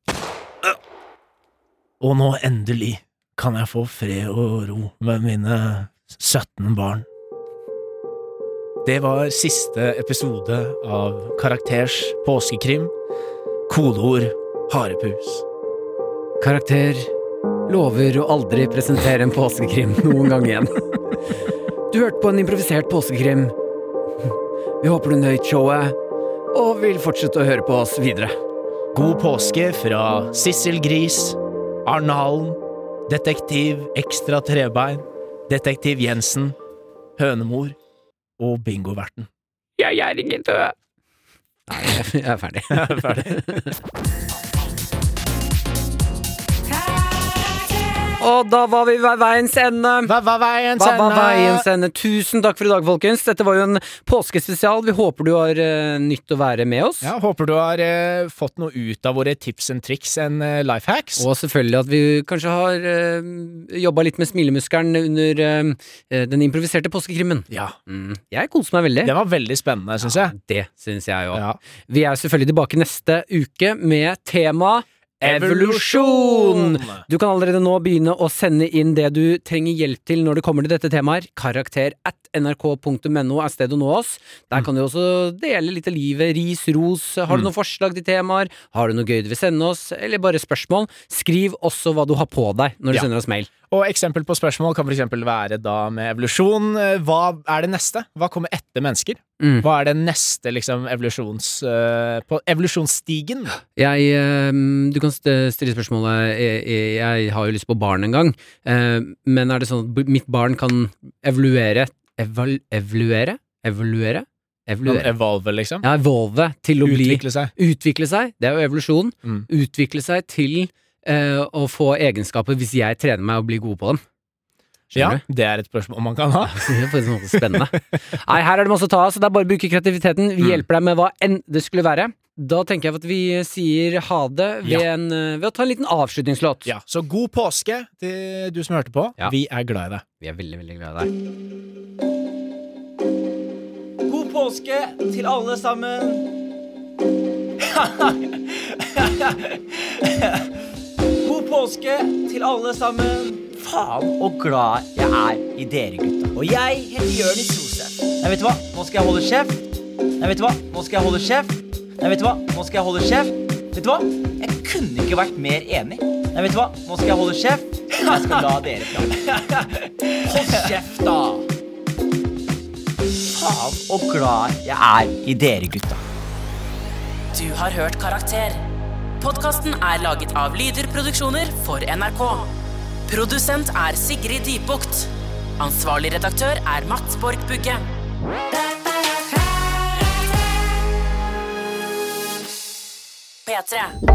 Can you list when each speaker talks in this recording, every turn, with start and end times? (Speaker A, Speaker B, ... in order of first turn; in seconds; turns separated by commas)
Speaker A: 2.0-7.1, Speaker A: 8.8-12.9, Speaker A: 13.7-15.4, Speaker B: 16.4-17.1, Speaker B: 17.7-20.8, Speaker B: 21.9-23.5, Speaker B: 24.8-26.0, Speaker B: 26.5-28.4, Speaker A: 28.9-36.6, Speaker A: 37.2-37.8, Speaker A: 38.4-39.3, Speaker B: 39.8-40.8, Speaker B: 41.7-43.8, Speaker A: 42.7-43.7, Speaker B: 48.2-50.1, Speaker A: 50.0-51.7, Speaker B: 50.8-57.1, Speaker A: 57.0-61.3, Speaker B: 61.2-69.2, Speaker A: 67.5-67.8, Speaker A: 69.0-70.3, Speaker B: 70.0-93.5, Speaker A: 71.3-71.6, Speaker A: 75.2-77.1, Speaker A: 93.7-103.6, Speaker B: 99.4-99.7, Speaker B: 103.8-115.1, Speaker A: 114.8-115.8, Speaker B: 115.8-124.0, Speaker A: 116.8-117.5, Speaker B: 124.9-125.2, Speaker A: 124.9-126.8, Speaker B: 126.5-136.7, Speaker A: 127.3-127.8, Speaker A: 130.4-130.7, Speaker A: 136.7-140.1, Speaker B: 140.2-141.1, Speaker C: 144.1-146.3, Speaker C: 147.6-150.6, Speaker C: 151.2-159.6, Speaker C: 160.2-171.5, Speaker C: 173.2-176.0, Speaker D: 177.3-178.7, Speaker D: 179.2-182.6, Speaker D: 183.1-187.8, Speaker D: 193.5-193.9